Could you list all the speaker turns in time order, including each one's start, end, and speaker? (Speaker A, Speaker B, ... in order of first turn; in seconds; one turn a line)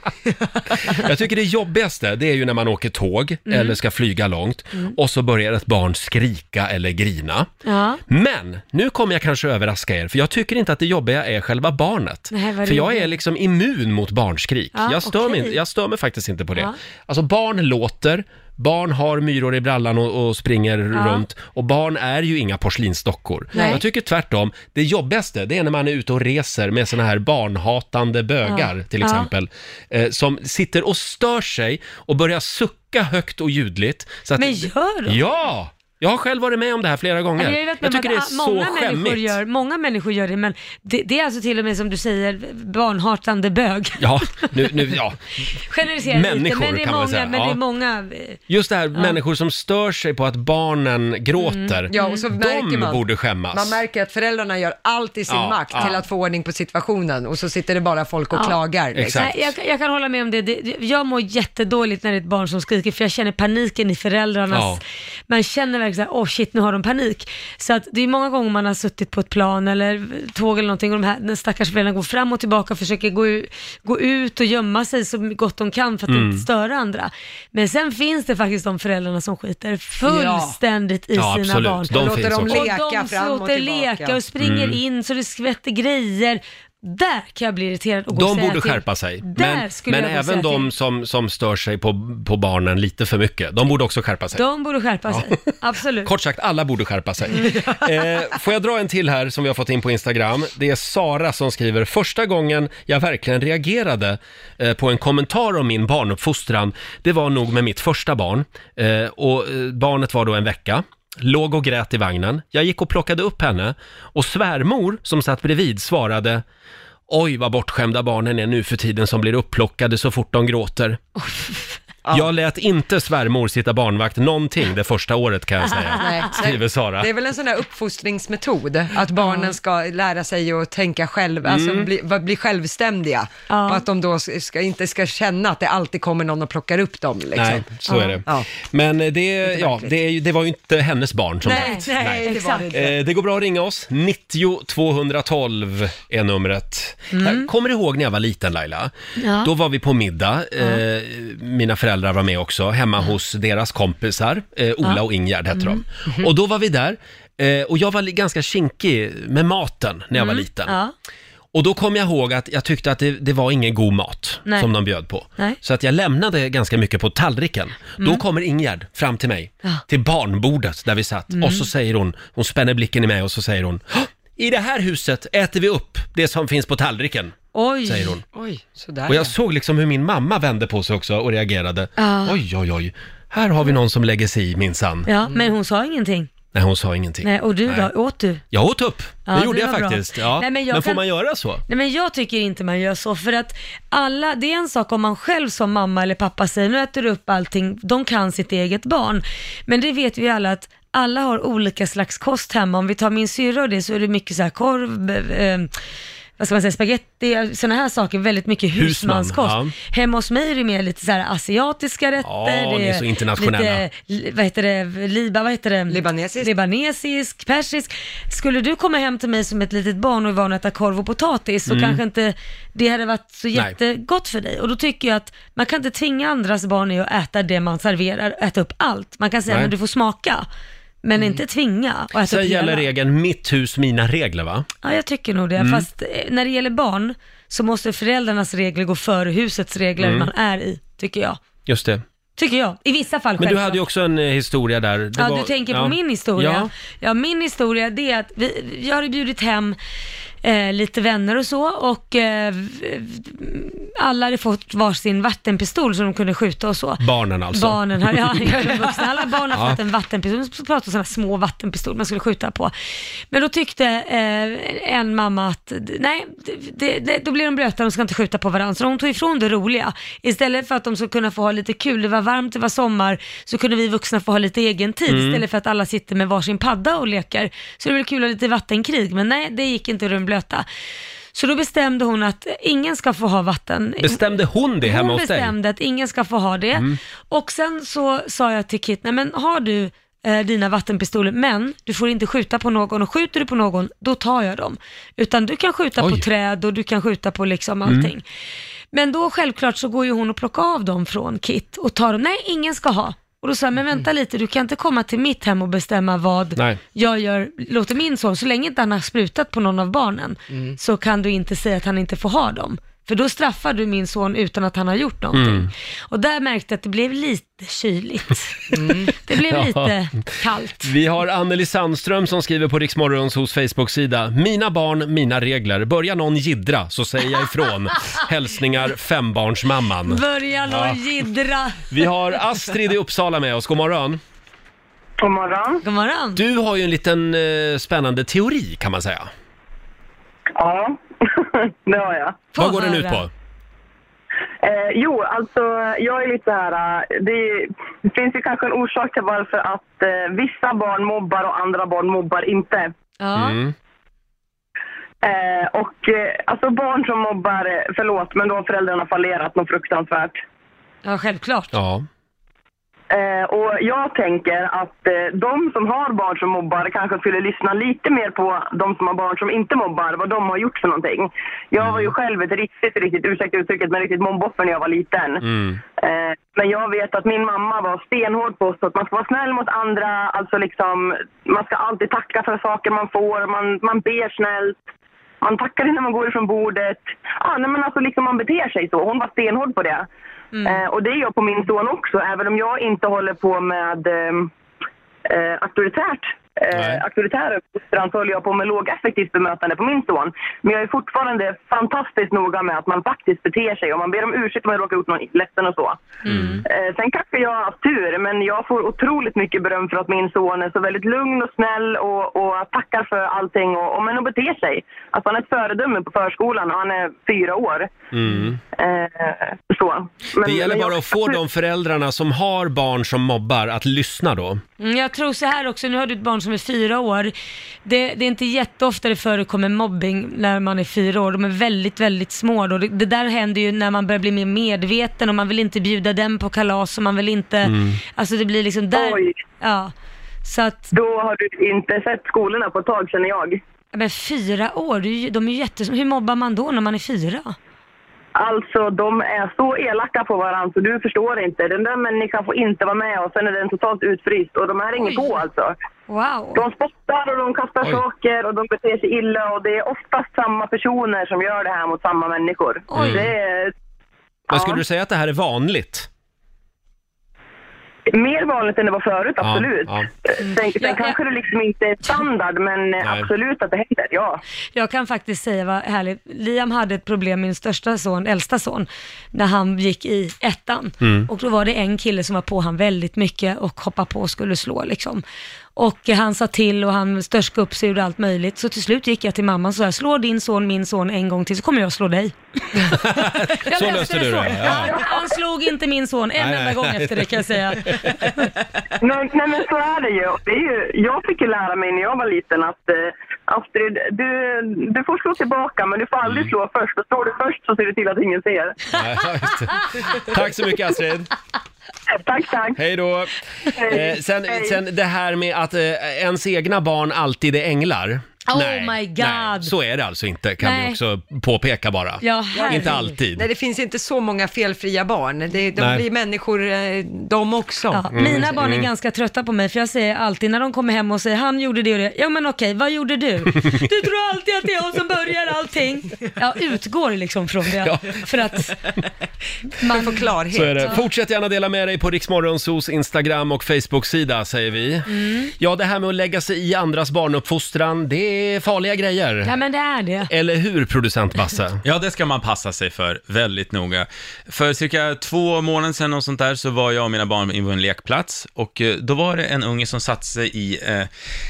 Speaker A: 0.8-7.5
Speaker B: 3.5-3.8
Speaker B: 7.7-8.0
Speaker A: 8.1-39.4
Speaker B: 12.3-13.1
Speaker B: 14.8-15.6
Speaker B: 20.9-21.2
Speaker C: 23.6-23.8
Speaker B: 23.6-23.8
Speaker B: 28.4-29.3
Speaker B: 34.4-35.2
Speaker B: 37.4-45.0
Speaker A: 44.0-45.5
Speaker B: 45.6-48.4
Speaker A: 46.0-47.6
Speaker A: 48.5-53.8
Speaker B: 51.4-52.2
Speaker C: 51.9-59.4
Speaker A: 55.3-56.0
Speaker A: 59.0-59.5
Speaker B: 59.1-90.7
Speaker A: 64.5-64.8
Speaker A: 76.1-76.5
Speaker C: 80.0-80.6
Speaker A: 81.2-82.7
Speaker C: 81.9-84.2
Speaker A: 84.4-84.8
Speaker A: 88.1-94.4
Speaker B: 94.3-96.1
Speaker A: 95.1-95.4
Speaker A: 96.0-116.4
Speaker B: 97.4-97.7
Speaker A: 117.1-121.0
Speaker B: 121.2-121.8
Speaker A: 122.1-127.1
Speaker B: 125.8-126.1
Speaker C: 126.0-138.5
Speaker B: 129.2-129.5
Speaker A: 131.4-131.9
Speaker B: 133.5-133.8
Speaker A: 137.3-148.9
Speaker B: 137.9-138.2
Speaker C: 139.4-139.9
Speaker B: 141.4-142.7
Speaker C: 141.4-143.0
Speaker B: 147.1-147.5
Speaker B: 149.2-149.5
Speaker A: 149.4-160.8
Speaker B: 155.5-155.8
Speaker B: 160.1-160.9
Speaker A: 161.5-178.2
Speaker B: 171.3-171.7
Speaker B: 177.5-178.2
Speaker C: 178.3-179.3
Speaker A: 179.1-185.1
Speaker B: 182.0-182.4
Speaker B: 185.1-186.3
Speaker A: 186.5-187.9
Speaker B: 187.2-188.4
Speaker A: 188.5-191.6
Speaker B: 189.3-191.1
Speaker B: 191.7-205.7
Speaker B: 206.4-230.5
Speaker A: 208.8-209.7
Speaker A: 212.2-213.8
Speaker C: 215.9-216.5
Speaker A: 221.7-222.0
Speaker A: 229.5-229.7
Speaker B: 231.0-232.9
Speaker A: 232.2-234.7
Speaker B: 234.8-241.4
Speaker A: 235.6-235.9
Speaker A: 240.0-240.3
Speaker A: 241.7-242.0
Speaker B: 242.4-243.8
Speaker A: 243.4-246.7
Speaker B: 245.2-249.8
Speaker B: 250.4-262.7
Speaker A: 257.0-258.9
Speaker A: 259.5-259.8
Speaker B: 263.3-280.7
Speaker A: 275.1-275.4
Speaker B: 281.3-284.2
Speaker A: 284.0-285.5
Speaker B: 284.8-298.2
Speaker A: 296.0-296.2
Speaker A: 297.9-298.1
Speaker B: 298.9-320.9
Speaker A: 315.3-315.7
Speaker C: 318.8-319.1
Speaker A: 319.4-331.0
Speaker B: 330.1-331.9
Speaker A: 331.9-334.2
Speaker D: 335.2-335.8
Speaker B: 335.8-336.4
Speaker A: 336.4-339.3
Speaker D: 340.6-342.4
Speaker B: 342.5-343.2
Speaker A: 342.6-343.3
Speaker D: 344.6-352.9
Speaker B: 353.2-353.6
Speaker A: 353.4-353.7
Speaker D: 355.2-360.4
Speaker B: 361.1-361.7
Speaker A: 361.7-362.1
Speaker D: 363.1-375.5
Speaker A: 371.8-372.1
Speaker A: 375.4-375.8
Speaker D: 376.0-384.9
Speaker D: 385.4-390.1
Speaker B: 390.5-390.8
Speaker D: 390.6-394.5
Speaker D: 395.3-406.0
Speaker A: 396.7-397.0
Speaker B: 406.2-406.6
Speaker A: 406.3-406.6
Speaker D: 406.7-417.9
Speaker A: 418.1-418.6
Speaker D: 418.8-421.4
Speaker A: 420.4-424.6
Speaker B: 424.8-427.3
Speaker B: 427.9-439.9
Speaker A: 437.6-438.0
Speaker D: 438.9-439.4
Speaker B: 440.4-440.9
Speaker D: 440.9-443.6
Speaker B: 443.9-447.6
Speaker D: 448.4-455.8
Speaker B: 456.1-456.6
Speaker D: 456.6-463.7
Speaker B: 462.9-463.3
Speaker A: 462.9-463.3
Speaker D: 464.5-464.8
Speaker A: 464.5-466.1
Speaker D: 468.1-474.4
Speaker A: 469.4-470.1
Speaker B: 470.4-471.2
Speaker A: 473.0-473.3
Speaker B: 474.7-485.2
Speaker A: 481.0-481.3
Speaker B: 485.8-498.5
Speaker A: 492.8-495.1
Speaker A: 496.4-498.5
Speaker D: 499.0-508.9
Speaker A: 508.9-511.3
Speaker D: 512.2-512.8
Speaker A: 512.8-523.5
Speaker D: 513.8-514.8
Speaker B: 518.5-519.7
Speaker B: 520.6-521.0
Speaker B: 522.2-523.1
Speaker C: 522.5-528.1
Speaker A: 525.8-526.0
Speaker B: 527.9-538.8
Speaker A: 528.1-528.9
Speaker A: 537.8-538.2
Speaker B: 539.8-540.2
Speaker C: 539.9-541.0
Speaker A: 540.5-549.5
Speaker B: 545.1-545.5
Speaker B: 549.4-550.3
Speaker A: 550.3-551.8
Speaker E: 551.8-561.1